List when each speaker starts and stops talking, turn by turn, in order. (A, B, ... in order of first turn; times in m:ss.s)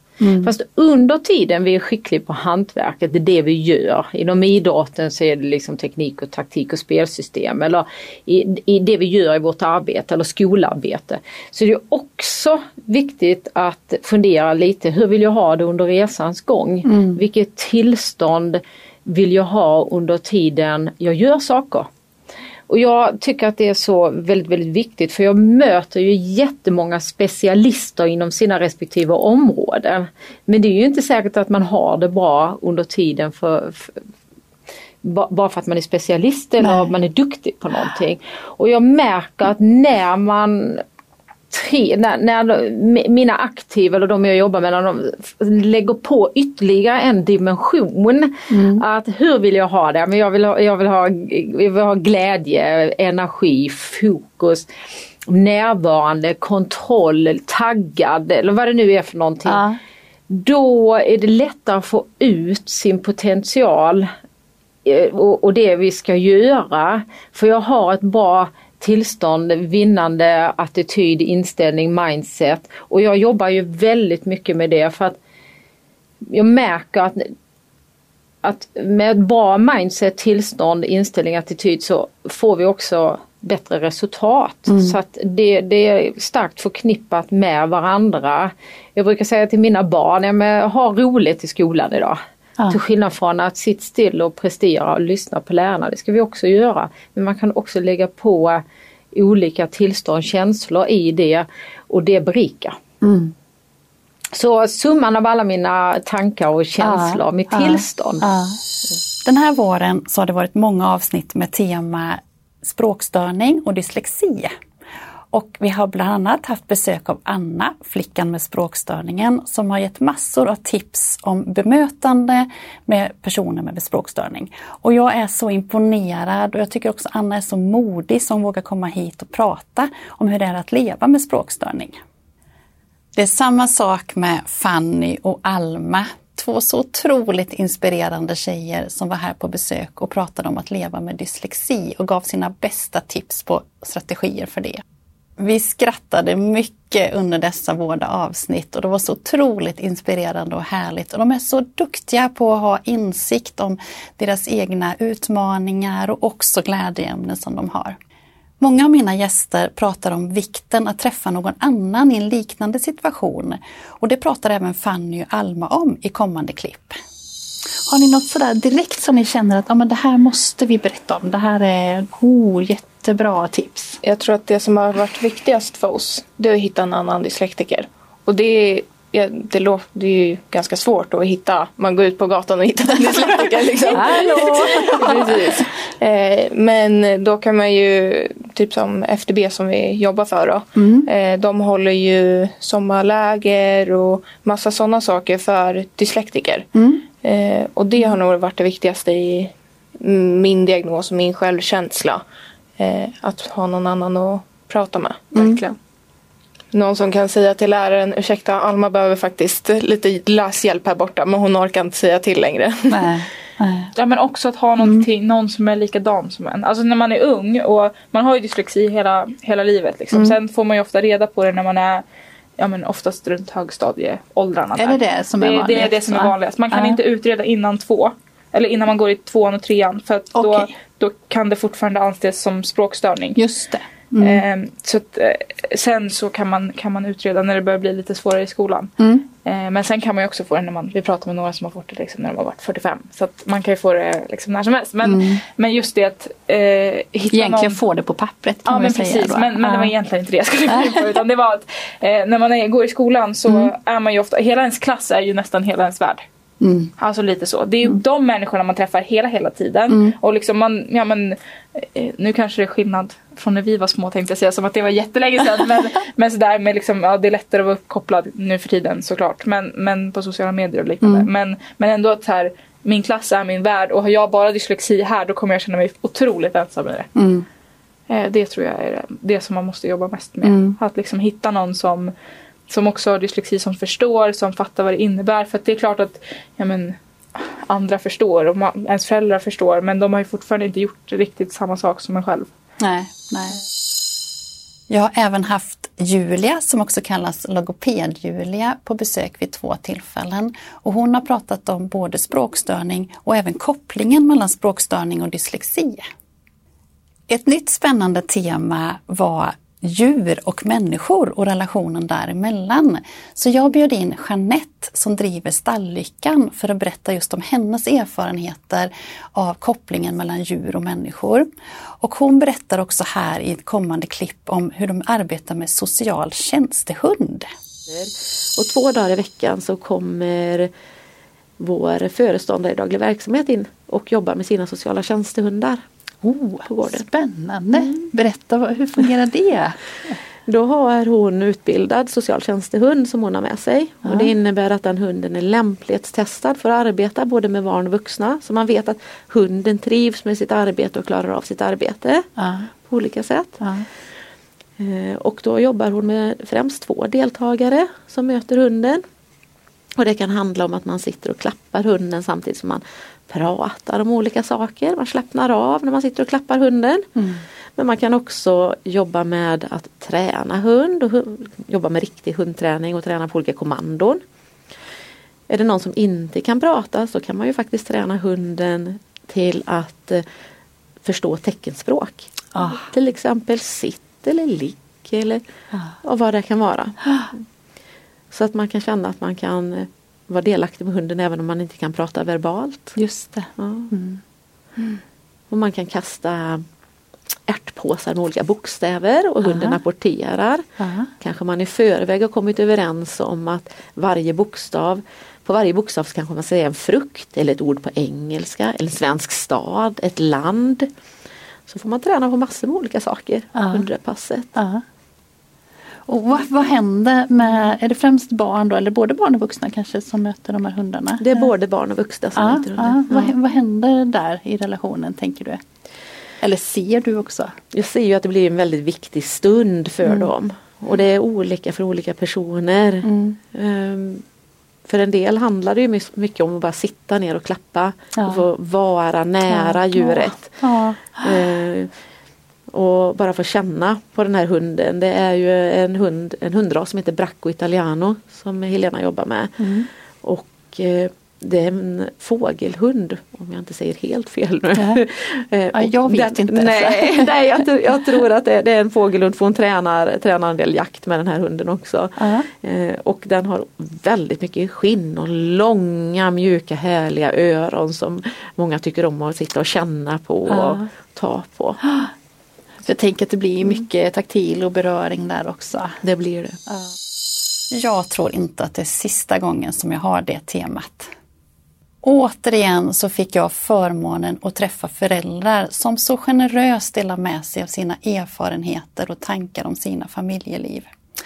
0:00.2-0:00.5 A
0:00.4-0:21.9 B
0:16.8-0:17.2 A
0:22.7-0:34.0 B
0:35.0-0:40.8 B
0:36.6-0:36.9 A
0:41.5-0:54.7 B
0:48.5-0:48.8 A
0:55.2-0:59.6 B
0:59.4-0:59.8 A
1:00.3-1:04.1 B
1:04.8-1:15.2 B
1:16.3-1:17.3 B
1:18.4-1:32.2 B
1:24.7-1:25.0 A
1:32.7-1:42.8 B
1:43.0-1:43.3 A
1:44.3-1:48.3 B
1:46.8-1:48.6 A
1:49.2-1:54.5 A
1:55.3-2:12.0 A
2:13.1-2:24.8 A
2:25.4-2:38.0 A
2:38.6-2:47.0 A
2:47.9-2:54.0 A
2:54.0-3:16.7 C
3:03.9-3:05.4 A
3:10.8-3:11.1 A
3:16.7-3:17.0 A
3:17.2-3:22.2 C
3:22.8-3:25.8 C
3:25.3-3:25.6 A
3:26.7-3:33.1 C
3:32.9-3:33.9 A
3:34.0-3:42.0 D
3:34.8-3:35.1 A
3:42.6-3:53.4 D
3:44.8-3:47.0 A
3:50.4-3:50.7 A
3:53.3-3:54.4 A
3:54.2-3:58.9 D
3:59.0-3:59.2 A
3:59.4-4:07.8 D
4:05.0-4:05.4 A
4:07.3-4:09.9 A
4:08.6-4:16.2 D
4:10.7-4:11.2 A
4:13.5-4:13.7 A
4:16.6-4:16.9 A
4:17.0-4:37.1 D
4:19.9-4:20.2 A
4:31.0-4:31.3 A
4:37.1-4:37.4 A
4:38.1-4:42.1 D
4:40.4-4:40.8 A
4:42.7-4:52.5 D
4:52.8-4:53.6 A
4:54.9-5:06.0 A
5:07.3-5:21.5 A
5:22.0-5:27.5 A
5:27.9-5:30.7 E
5:31.6-5:35.8 E
5:36.2-5:40.2 A
5:36.6-5:37.0 E
5:37.7-5:38.0 E
5:40.5-5:52.2 E
5:44.0-5:44.3 A
5:52.4-5:52.7 A
5:52.9-5:53.6 E
5:53.6-5:53.8 A
5:54.8-5:59.0 E
6:00.0-6:07.1 E
6:07.2-6:07.4 A
6:07.8-6:14.2 E
6:15.5-6:20.2 E
6:21.0-6:25.4 E
6:22.5-6:22.8 A
6:26.0-6:27.0 E
6:28.3-6:32.9 E
6:33.0-6:34.2 A
6:33.6-6:33.9 E
6:35.5-6:36.6 E
6:37.5-6:40.6 E
6:39.4-6:39.8 A
6:40.8-6:41.1 A
6:41.2-6:50.9 E
6:51.7-6:54.5 E
6:53.6-6:53.8 A
6:54.5-6:54.8 A
6:56.0-7:01.5 A
7:01.2-7:03.3 E
7:02.3-7:05.6 A
7:06.4-7:07.6 A
7:07.7-7:14.2 E
7:10.0-7:10.3 A
7:13.0-7:13.4 A
7:14.9-7:21.9 E
7:18.2-7:18.4 A
7:19.4-7:21.4 A
7:22.7-7:29.7 E
7:29.6-7:29.9 A
7:30.2-7:51.8 E
7:34.7-7:35.0 A
7:35.7-7:37.3 A
7:42.2-7:42.5 A
7:50.5-7:50.8 A
7:51.8-7:52.1 A
7:52.8-7:56.0 A
7:56.0-7:56.6 E
7:57.7-8:01.1 A
8:02.0-8:10.9 A